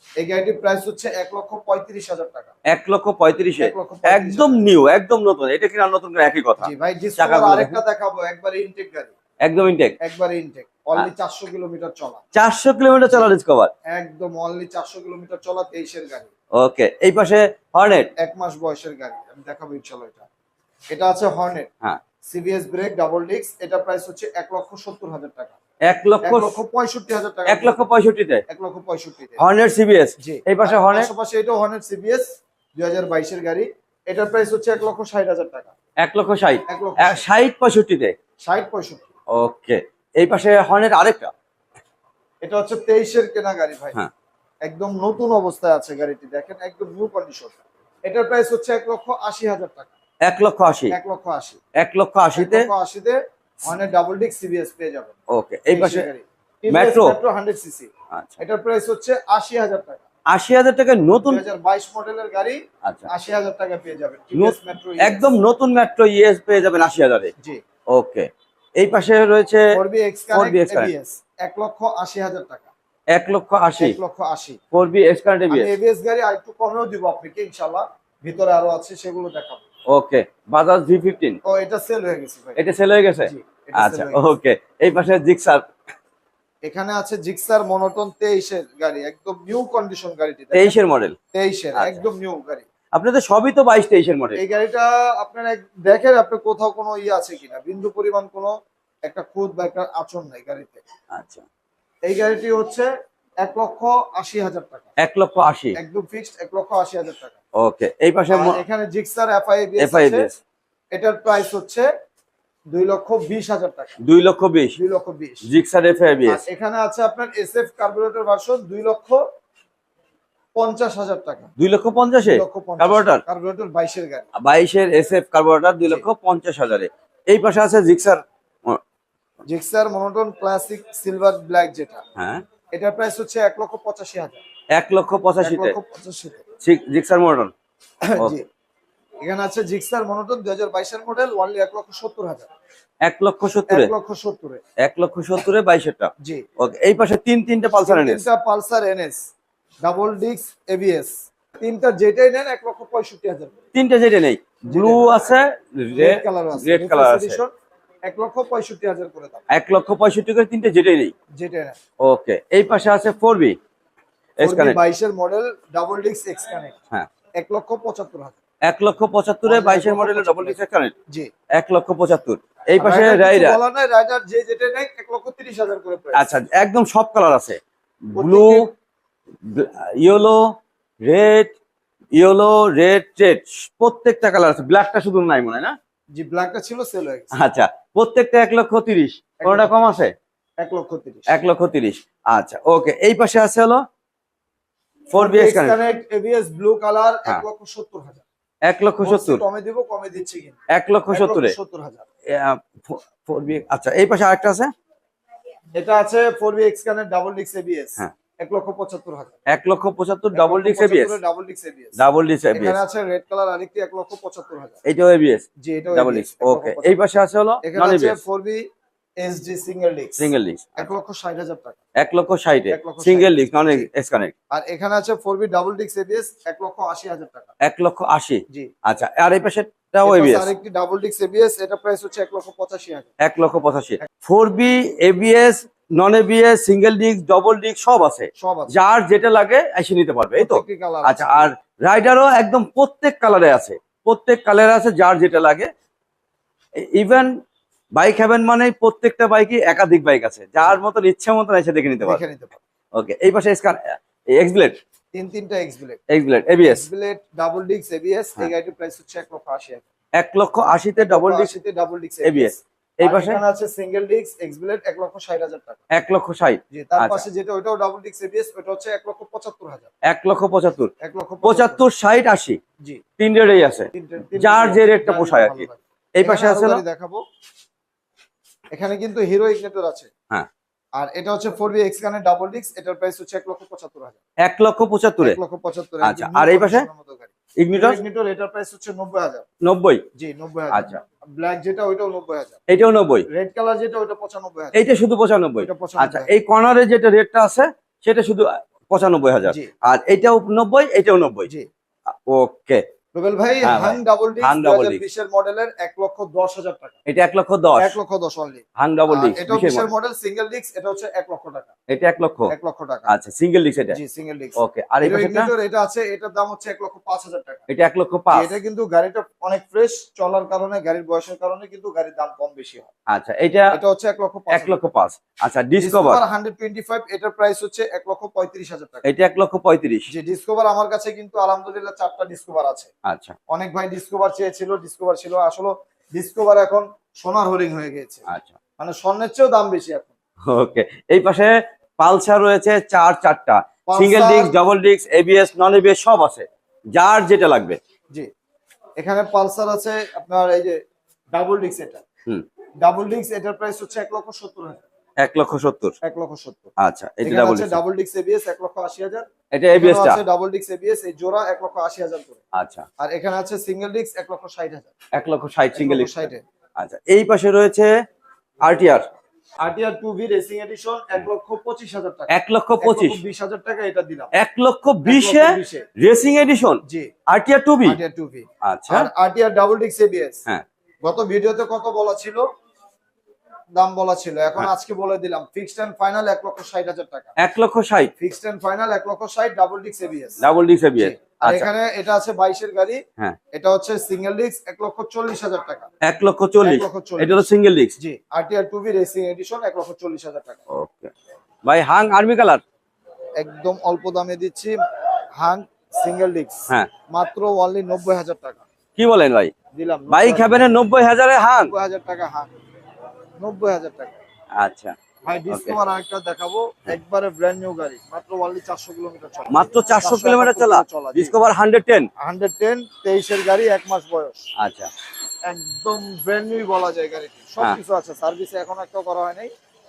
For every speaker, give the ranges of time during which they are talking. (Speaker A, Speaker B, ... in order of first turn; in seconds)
Speaker A: 0.2-2.5, 3.6-4.6, 6.6-9.1, 10.0-12.2, 13.9-16.3, 18.2-20.3, 20.9-21.7, 22.2-25.6, 26.2-27.8, 28.5-29.4, 30.2-35.7, 36.7-37.2, 38.4-39.1, 42.4-44.0, 44.6-49.9, 50.9-51.6, 52.3-55.1, 55.7-60.0, 61.2-65.2, 69.7-72.7, 73.8-74.6, 75.5-79.6, 81.4-82.6, 83.2-84.3, 86.6-90.8, 91.3-92.7, 94.3-98.5, 99.0-100.8, 102.0-102.9, 103.4-104.9, 105.8-107.4, 108.3-110.3, 110.9-111.9, 112.7-114.0, 114.8-115.5, 116.2-119.2, 120.5-121.5, 122.2-124.2, 129.4-132.0, 132.7-134.4, 135.4-136.4, 138.0-138.4, 139.2-142.5, 143.7-144.6, 146.2-146.5, 147.8-149.2, 149.8-153.5, 154.7-155.4, 155.9-157.5, 158.1-159.4, 161.3-161.8, 164.4-166.8, 167.4-168.4, 169.4-171.3, 172.8-176.3, 178.2-178.7, 186.1-187.3, 189.4-189.9, 190.6-191.3, 195.1-198.2, 199.0-200.6, 201.1-202.0, 205.8-209.4, 210.3-212.0, 212.5-214.8, 215.6-217.0, 217.6-218.6, 219.2-221.8, 222.7-223.9, 224.5-227.5, 230.0-233.1, 238.4-238.8, 240.3-241.5, 252.0-252.6, 255.1-256.0, 256.6-259.9, 261.0-265.8, 266.7-269.9, 271.0-271.8, 273.9-277.2, 278.7-280.1, 281.0-284.2, 285.2-289.4, 290.1-292.6, 293.3-294.8, 295.6-296.3, 303.1-307.0, 307.8-311.7, 312.5-313.1, 313.9-317.6, 318.3-322.9, 323.7-324.8, 325.8-329.1, 330.1-332.9, 333.5-338.2, 338.8-340.1, 343.9-344.5, 349.0-350.8, 351.3-352.0, 352.8-354.8, 356.0-362.4, 363.0-364.9, 365.7-366.4, 369.6-374.3, 375.0-375.9, 376.9-377.1, 377.8-380.4, 381.0-382.4, 383.7-387.3, 388.2-390.4, 391.0-393.0, 393.5-395.9, 396.6-397.5, 398.0-400.6, 403.4-404.8, 405.4-408.6, 409.7-410.7, 411.6-412.6, 413.4-414.2, 415.2-421.3, 422.2-424.5, 425.5-429.5
Speaker B: 2.7-7.8, 9.4-9.9, 12.3-13.7, 16.6-18.1, 25.9-26.6, 27.4-28.4, 29.4-31.1, 36.0-38.1, 39.3-41.3, 50.2-50.9, 51.8-52.7, 55.3-56.1, 56.7-57.1, 58.1-58.4, 60.3-61.4, 62.8-63.1, 64.3-67.3, 67.9-69.8, 70.3-70.9, 73.1-74.0, 74.7-75.7, 79.9-81.4, 82.6-85.7, 90.5-91.2, 91.7-92.0, 92.9-94.4, 101.1-101.4, 105.0-105.8, 107.6-108.6, 109.8-110.4, 114.0-114.8, 115.4-116.4, 121.6-123.2, 124.3-128.8, 132.2-132.4, 134.7-135.8, 136.6-137.5, 143.0-143.9, 144.8-148.2, 153.7-157.4, 159.5-161.1, 162.0-163.6, 164.4-164.8, 168.6-170.9, 171.5-173.6, 176.1-177.6, 178.1-178.7, 179.4-181.5, 182.1-185.8, 187.3-190.1, 191.3-193.8, 195.1-195.8, 198.6-199.4, 200.7-201.6, 202.3-204.7, 209.5-211.2, 212.0-212.8, 214.8-218.2, 220.2-220.9, 222.0-224.3, 227.6-230.5, 233.2-245.7, 246.8-247.3, 247.9-252.2, 252.9-254.8, 256.1-256.8, 260.2-261.5, 262.2-263.4, 265.9-267.2, 270.1-270.9, 271.4-272.6, 273.2-276.8, 284.4-285.4, 286.0-286.9, 287.6-288.0, 289.6-290.0, 290.7-291.0, 292.7-293.3, 294.7-301.5, 302.1-302.8, 303.6-305.0, 307.1-307.9, 308.8-309.9, 311.9-312.5, 313.1-314.0, 314.6-315.5, 317.7-318.5, 323.1-323.8, 324.5-326.2, 329.0-330.1, 333.1-333.4, 338.3-338.6, 340.5-347.8, 355.2-355.9, 356.8-357.8, 359.5-360.2, 362.5-362.9, 365.1-367.9, 368.6-369.1, 372.3-373.2, 374.3-378.0, 378.6-379.1, 387.4-388.1, 390.4-391.7, 396.0-397.9, 400.7-401.1, 401.6-402.6, 409.0-409.5, 410.1-411.7, 414.6-414.9, 415.5-415.8, 419.5-422.1, 424.6-424.9